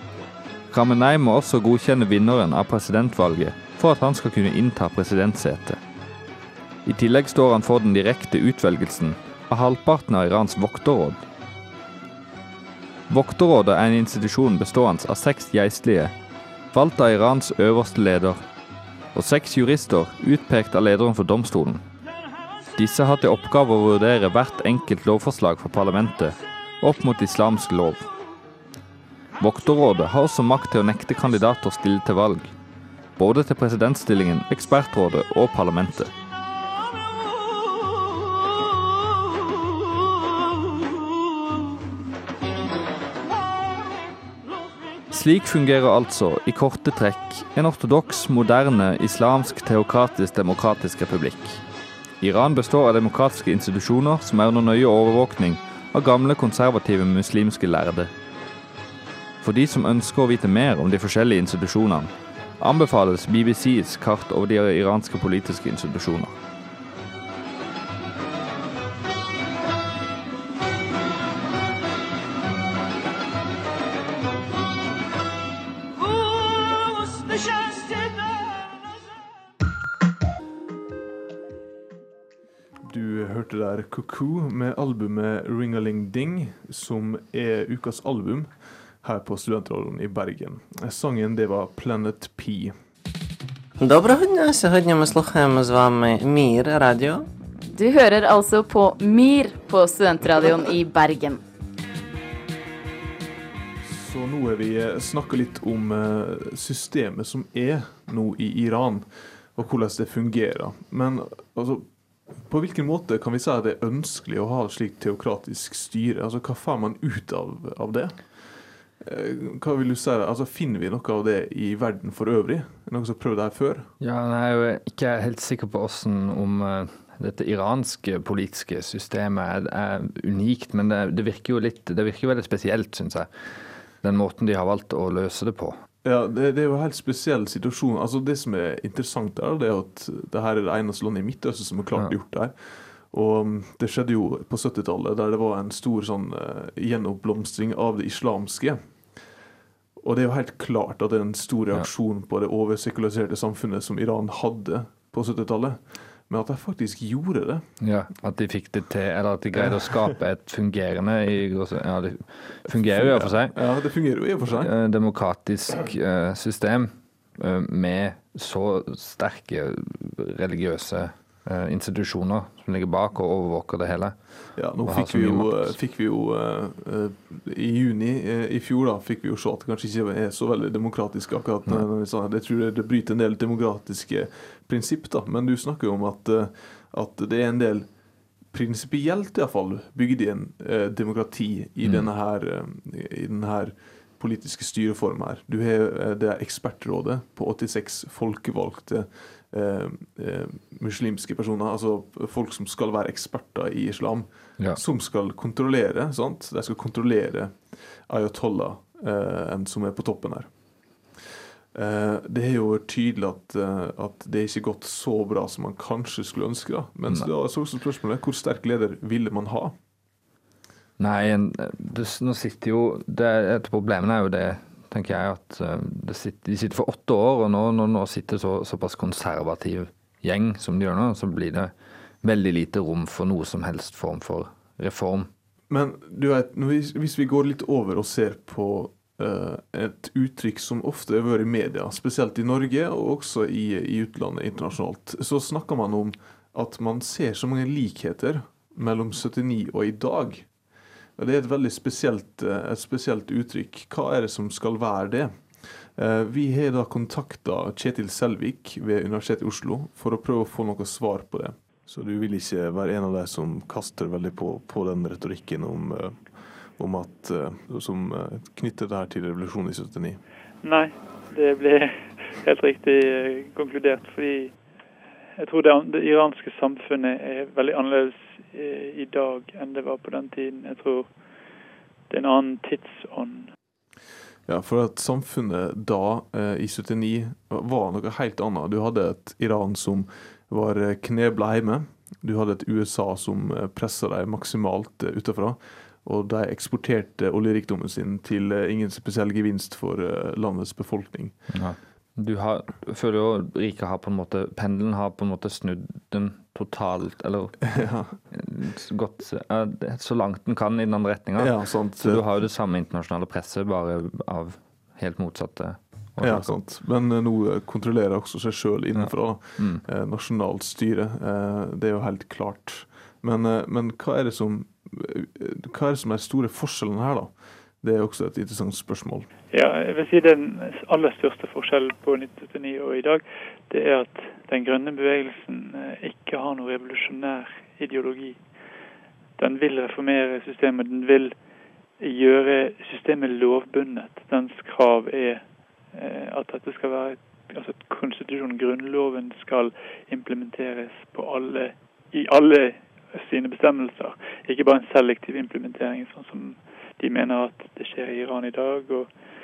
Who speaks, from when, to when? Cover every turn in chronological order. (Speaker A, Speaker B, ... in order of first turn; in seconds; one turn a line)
Speaker A: 0.7-5.8
Speaker A: 6.8-11.2
Speaker A: 13.1-16.1
Speaker A: 16.7-18.4
Speaker A: 19.1-21.8
Speaker A: 22.8-28.1
Speaker A: 29.4-32.5
Speaker A: 33.2-36.1
Speaker A: 45.1-51.6
Speaker A: 52.2-58.1
Speaker A: 59.4-66.3
Speaker B: 82.8-92.8
Speaker C: 93.8-97.3
Speaker D: 97.7-101.4
Speaker B: 103.8-123.9
Speaker A: 124.0-133.3
Speaker A: 134.0-135.8
Speaker B: 136.0-148.8
Speaker B: 150.0-157.7
Speaker A: 157.8-163.6
Speaker B: 159.5-160.0
Speaker B: 162.7-164.7
Speaker A: 164.6-174.2
Speaker B: 174.6-187.9
Speaker A: 174.8-175.7
Speaker B: 188.5-210.5
Speaker A: 191.8-192.1
Speaker B: 211.7-219.7
Speaker A: 221.0-235.3
Speaker B: 235.7-250.5
Speaker B: 251.2-270.2
Speaker E: 270.6-274.5
Speaker E: 275.4-281.1
Speaker E: 282.1-283.5
Speaker B: 284.4-301.4
Speaker A: 301.5-307.7
Speaker B: 307.7-308.1
Speaker A: 308.3-316.6
Speaker B: 311.4-312.2
Speaker B: 316.2-329.3
Speaker A: 318.9-319.8
Speaker E: 329.5-338.4
Speaker E: 339.4-341.3
Speaker E: 342.0-359.1